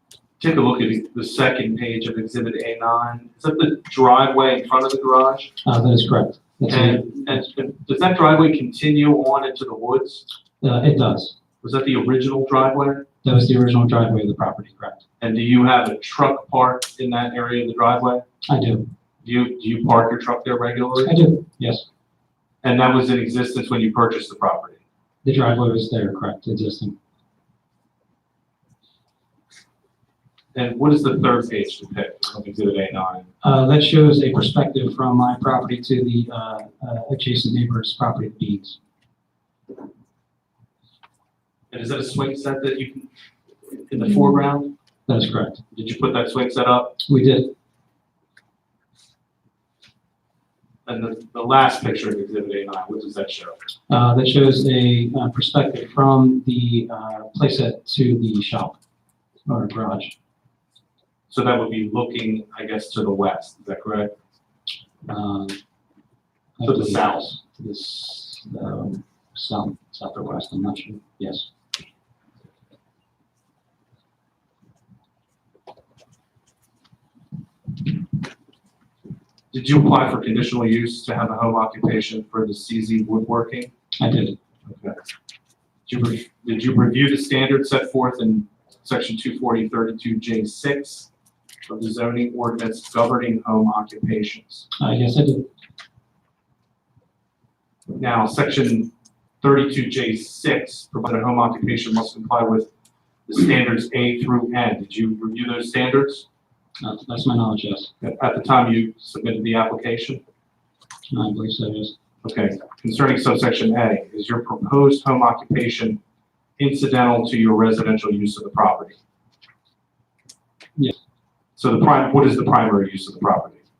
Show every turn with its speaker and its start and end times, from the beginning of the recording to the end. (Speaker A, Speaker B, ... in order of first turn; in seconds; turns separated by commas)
Speaker A: 0.4-5.5, Speaker B: 5.6-7.4, Speaker A: 6.7-10.2, Speaker B: 10.6-11.3, Speaker A: 11.6-13.1, Speaker B: 13.2-15.0, Speaker A: 15.2-18.2, Speaker B: 18.5-18.9, Speaker A: 19.2-21.2, Speaker B: 21.0-21.8, Speaker A: 22.6-24.8, Speaker B: 25.2-26.9, Speaker A: 30.5-33.3, Speaker B: 33.4-38.8, Speaker A: 41.7-43.1, Speaker A: 43.6-44.7, Speaker B: 45.1-45.6, Speaker A: 45.7-47.0, Speaker B: 47.0-47.5, Speaker A: 50.9-53.6, Speaker B: 53.9-58.8, Speaker B: 59.5-60.1, Speaker A: 61.3-64.1, Speaker B: 65.0-65.6, Speaker B: 66.6-71.5, Speaker A: 66.6-67.3, Speaker A: 79.5-83.7, Speaker B: 84.0-84.4, Speaker A: 84.7-85.0, Speaker A: 85.9-91.1, Speaker A: 91.7-94.7, Speaker B: 94.8-95.5, Speaker A: 98.0-102.7, Speaker A: 103.3-106.2, Speaker B: 106.8-107.9, Speaker A: 108.0-110.2, Speaker B: 111.1-111.9, Speaker A: 112.2-116.0, Speaker A: 116.6-119.0, Speaker A: 121.6-123.6